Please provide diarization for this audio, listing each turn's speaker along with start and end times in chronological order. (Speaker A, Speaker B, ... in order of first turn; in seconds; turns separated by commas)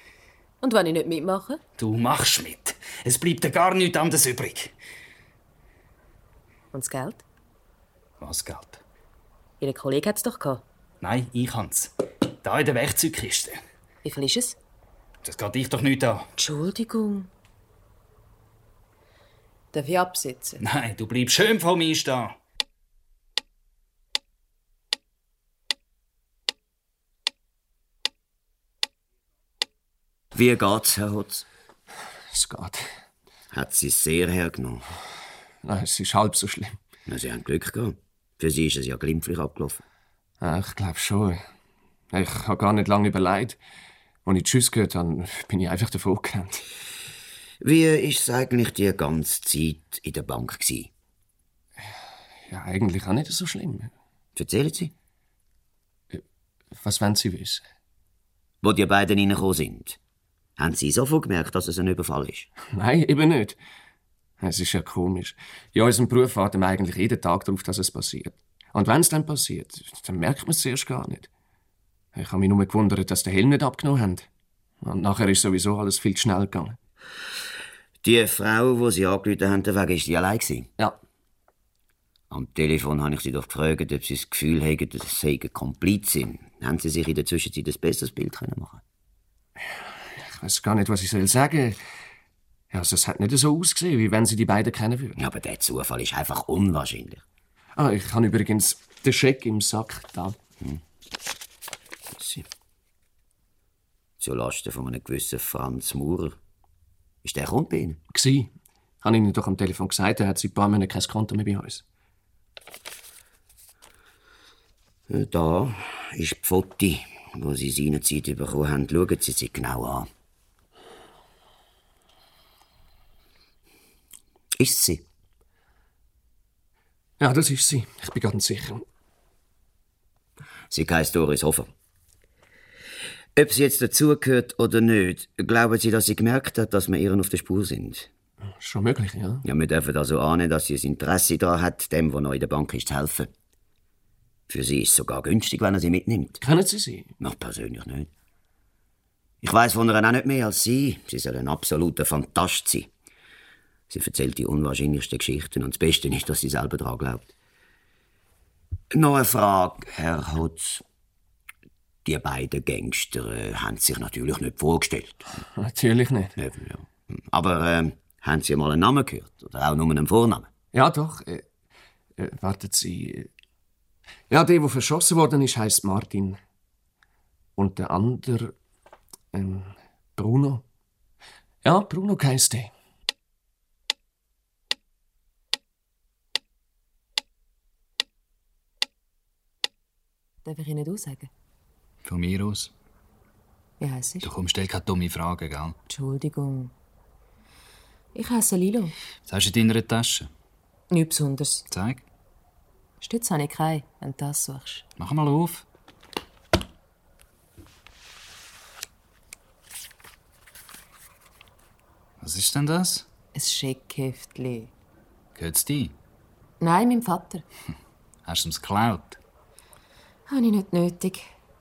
Speaker A: 0.6-1.6, Speaker B: 1.8-4.7, Speaker A: 6.7-7.2, Speaker B: 8.2-8.8, Speaker A: 9.6-10.6, Speaker B: 11.0-11.9, Speaker B: 12.4-13.6, Speaker A: 14.0-14.6, Speaker B: 15.2-16.3, Speaker A: 16.4-17.3, Speaker A: 19.7-20.6, Speaker B: 20.6-22.4, Speaker C: 30.3-31.4, Speaker D: 32.3-32.9, Speaker C: 33.5-34.9, Speaker D: 35.6-36.8, Speaker C: 37.1-39.8, Speaker D: 40.4-41.4, Speaker D: 42.1-43.6, Speaker D: 44.2-46.6, Speaker C: 47.6-50.9, Speaker D: 52.5-53.9, Speaker C: 54.4-54.9, Speaker D: 56.8-57.6, Speaker C: 58.6-60.0, Speaker C: 60.6-62.5, Speaker D: 62.7-63.6, Speaker D: 64.4-71.3, Speaker D: 72.1-74.3, Speaker D: 74.8-76.8, Speaker C: 78.0-80.7, Speaker C: 82.3-88.8, Speaker D: 90.2-91.8, Speaker D: 92.7-95.2, Speaker C: 95.2-97.2, Speaker D: 97.8-100.4, Speaker C: 102.2-102.5, Speaker C: 104.2-106.4, Speaker C: 107.2-108.0, Speaker D: 108.1-108.5, Speaker D: 109.0-111.8, Speaker C: 115.1-120.1, Speaker C: 124.6-125.0, Speaker D: 127.2-128.8, Speaker C: 130.7-131.7, Speaker C: 133.4-138.1, Speaker D: 138.6-139.4, Speaker C: 139.4-143.3, Speaker C: 144.5-146.4, Speaker D: 146.4-147.1, Speaker C: 147.2-148.1, Speaker C: 149.4-152.9, Speaker C: 153.9-157.3, Speaker C: 158.9-160.8, Speaker C: 162.1-165.2, Speaker D: 165.6-166.3, Speaker C: 166.4-170.5, Speaker D: 170.7-171.4, Speaker D: 172.2-173.3, Speaker D: 174.3-176.4, Speaker D: 177.6-178.5, Speaker D: 179.3-180.6, Speaker D: 181.6-182.7, Speaker A: 190.4-191.3, Speaker E: 192.0-192.7, Speaker A: 193.8-194.3, Speaker E: 194.2-195.8, Speaker A: 195.9-196.7, Speaker A: 198.1-198.9, Speaker E: 199.2-200.3, Speaker A: 200.9-201.7, Speaker E: 201.7-202.0, Speaker A: 203.0-204.9, Speaker E: 205.0-205.7, Speaker E: 212.2-213.1, Speaker A: 213.3-214.7, Speaker E: 215.3-216.0, Speaker A: 216.6-217.4, Speaker E: 218.2-219.2, Speaker A: 220.3-221.3